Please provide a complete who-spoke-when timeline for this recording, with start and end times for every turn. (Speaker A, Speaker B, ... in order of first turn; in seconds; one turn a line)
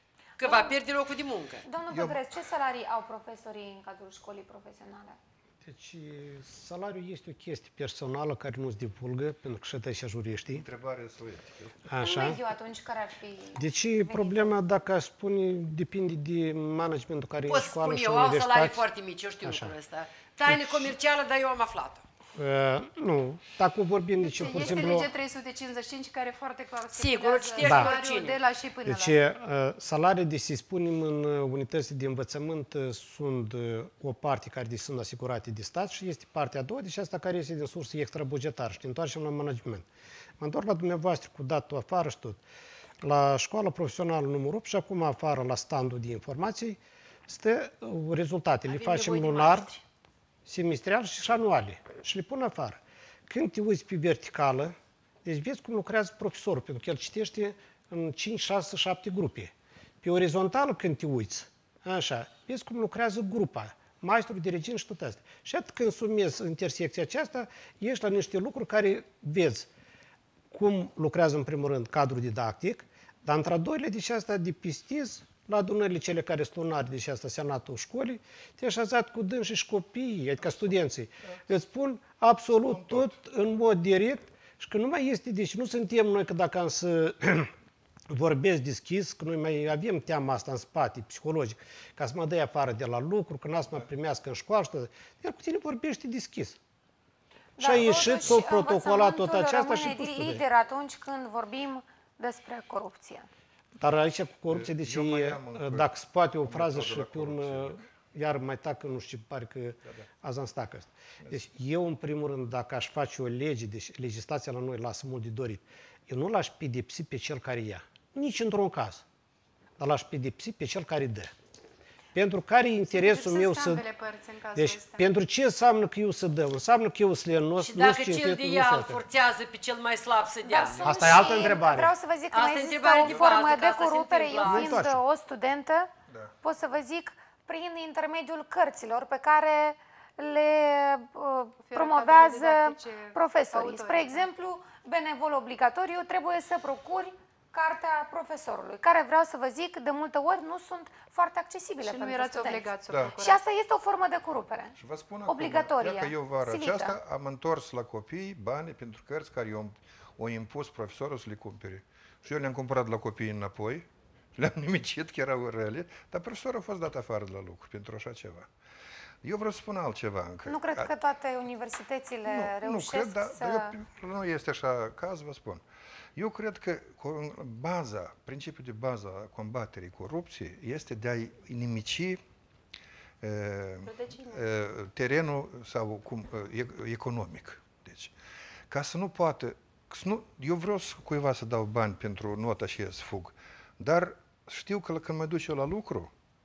Speaker A: 0.4-0.8
Speaker B: 0.4-1.6
Speaker A: 1.6-5.2
Speaker C: 1.9-2.2
Speaker D: 5.6-10.7
Speaker C: 10.5-11.9
Speaker D: 11.9-12.4
Speaker A: 12.0-14.6
Speaker D: 13.6-18.9
Speaker B: 17.5-22.0
Speaker D: 19.4-19.8
Speaker D: 20.5-20.9
Speaker D: 22.4-25.1
Speaker E: 24.2-29.2
Speaker B: 26.9-28.4
Speaker D: 27.6-28.0
Speaker D: 28.9-39.9
Speaker D: 40.4-42.4
Speaker D: 43.0-49.7
Speaker B: 48.7-49.8
Speaker D: 50.5-69.7
Speaker D: 70.5-87.5
Speaker C: 80.4-81.4
Speaker C: 82.6-83.2
Speaker D: 88.1-96.6
Speaker A: 97.6-103.3
Speaker D: 97.6-100.4
Speaker D: 103.8-119.0
Speaker C: 104.5-107.9
Speaker D: 119.8-121.3
Speaker D: 122.2-123.9
Speaker E: 122.9-125.1
Speaker D: 124.6-129.1
Speaker B: 127.6-131.5
Speaker A: 130.4-135.9
Speaker D: 130.7-131.9
Speaker B: 132.3-134.8
Speaker D: 134.4-135.0
Speaker A: 136.4-154.7
Speaker E: 141.7-144.3
Speaker E: 151.8-153.4
Speaker C: 154.8-168.5
Speaker A: 155.3-157.0
Speaker C: 169.2-170.9
Speaker A: 170.4-173.8
Speaker C: 172.3-175.6
Speaker C: 176.2-182.2
Speaker C: 183.2-188.1
Speaker E: 183.9-184.4
Speaker C: 188.7-196.1